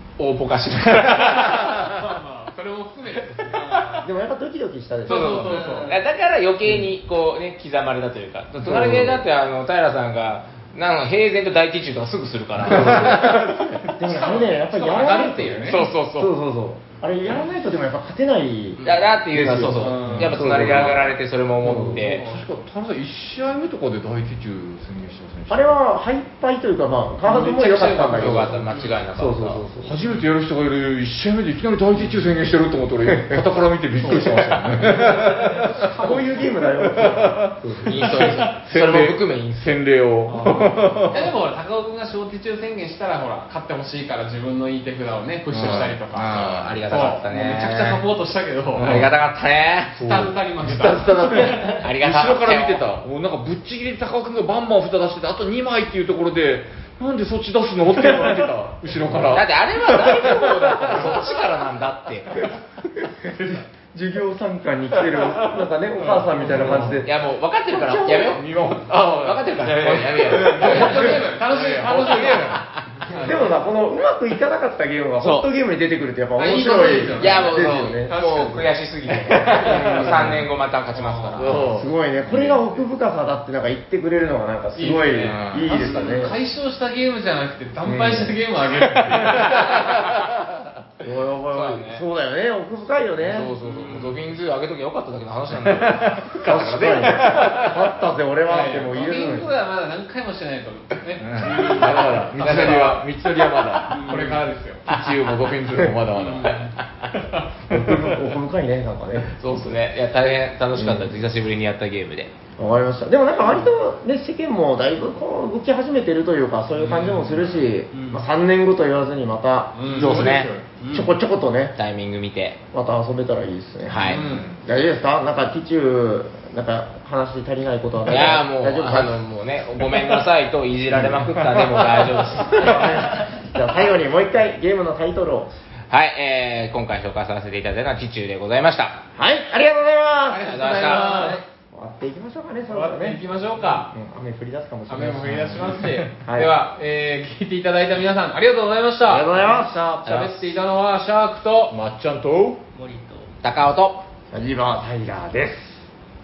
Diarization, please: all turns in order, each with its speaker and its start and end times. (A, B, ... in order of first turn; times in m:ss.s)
0:00.2-0:01.9 A
0:01.7-0:04.0 B
0:04.0-0:05.6 C
0:05.1-0:05.9 B
0:05.1-0:13.2 A
0:05.5-0:06.0 D
0:08.6-0:09.3 C
0:12.6-0:22.1 C
0:12.7-0:13.8 E
0:14.0-0:15.9 B
0:15.7-0:16.3 A
0:18.8-0:22.2 A
0:19.8-0:20.9 E
0:21.7-0:25.8 E
0:22.0-0:22.4 B
0:25.5-0:30.0 C
0:27.3-0:29.0 B
0:27.5-0:29.6 A
0:29.8-0:36.0 E
0:34.2-0:34.7 A
0:35.1-0:36.4 B
0:35.9-0:38.0 C
0:36.6-0:41.3 E
0:37.8-0:39.7 A
0:40.3-0:49.0 B
0:45.5-0:47.0 E
0:45.6-0:48.0 A
0:48.8-0:49.1 E
0:48.8-0:50.0 A
0:50.0-1:01.3 E
0:50.0-0:51.8 B
0:51.6-0:52.8 A
0:59.3-1:02.5 A
1:03.9-1:07.1 C
1:06.1-1:07.0 E
1:06.5-1:07.0 B
1:07.0-1:13.0 A
1:07.7-1:08.4 C
1:08.3-1:12.3 E
1:10.5-1:13.4 B
1:13.1-1:18.2 C
1:15.2-1:15.5 A
1:16.4-1:18.7 B
1:17.2-1:21.7 A
1:19.4-1:20.4 C
1:19.6-1:20.0 B
1:19.8-1:20.4 E
1:21.0-1:21.6 B
1:21.4-1:22.7 E
1:21.5-1:26.4 C
1:24.8-1:29.8 B
1:25.3-1:25.8 E
1:27.8-1:28.4 C
1:29.2-1:30.6 E
1:29.2-1:30.1 A
1:31.0-1:33.5 C
1:31.5-1:32.0 A
1:33.2-1:34.1 E
1:33.3-1:37.6 A
1:33.3-1:34.2 B
1:35.5-1:37.8 E
1:36.4-1:39.5 C
1:38.5-1:43.1 B
1:41.2-1:44.1 E
1:41.6-1:42.0 D
1:43.9-1:44.4 D
1:43.9-1:44.8 B
1:44.8-1:46.7 E
1:46.2-1:47.5 B
1:46.3-1:47.1 A
1:47.7-1:49.5 C
1:49.3-1:52.3 A
1:50.7-1:51.2 C
1:52.6-2:00.0 C
1:56.8-1:57.3 B
1:57.9-1:58.2 D
1:59.8-2:00.6 B
1:59.9-2:00.5 A
2:00.0-2:00.6 E
2:00.8-2:01.1 D
2:00.9-2:01.8 C
2:01.8-2:02.6 A
2:02.7-2:09.2 C
2:03.9-2:04.2 A
2:04.1-2:04.6 E
2:04.1-2:04.5 B
2:08.1-2:13.3 A
2:10.9-2:11.6 C
2:12.6-2:15.5 C
2:15.9-2:19.0 A
2:19.2-2:20.9 C
2:20.3-2:21.4 B
2:20.4-2:21.4 A
2:21.0-2:21.3 D
2:21.7-2:23.2 C
2:22.7-2:23.9 B
2:23.9-2:25.4 C
2:24.9-2:31.8 B
2:25.3-2:26.1 E
2:26.2-2:26.5 C
2:29.0-2:30.0 C
2:30.0-2:30.4 A
2:31.7-2:32.6 E
2:32.7-2:33.3 D
2:33.4-2:34.0 A
2:34.3-2:35.8 C